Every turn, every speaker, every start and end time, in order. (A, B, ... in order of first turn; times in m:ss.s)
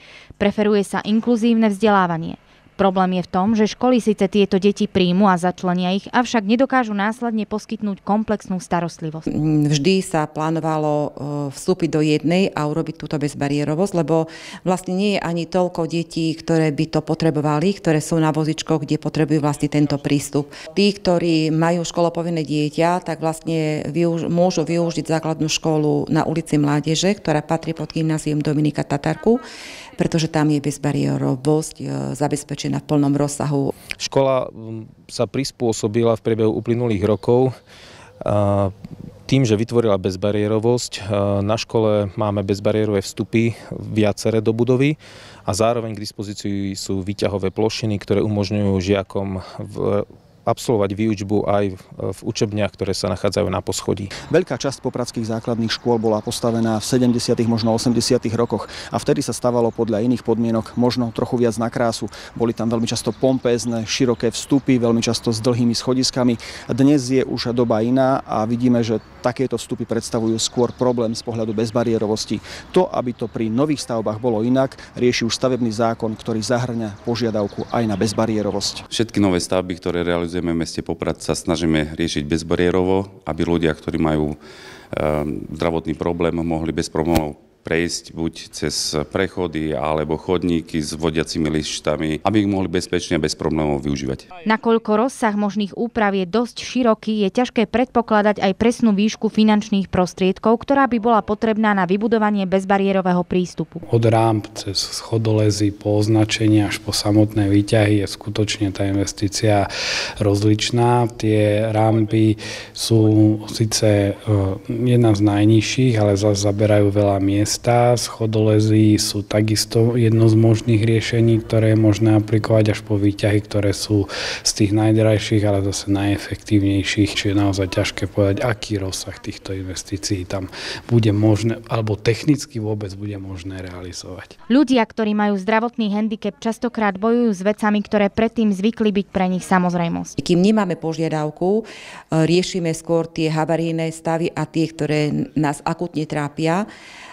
0:00.4-0:09.2 A
0:09.3-0:29.4 B
0:30.0-0:33.7 B
0:34.0-0:37.5 C
0:38.2-0:38.7 C
0:39.3-0:54.1 C
0:54.2-1:18.8 D
1:18.9-1:24.4 E
1:24.9-1:34.3 E
1:34.4-1:43.8 A
1:43.9-1:49.7 F
1:50.2-2:14.3 F
2:14.5-2:20.2 A
2:20.2-2:26.7 B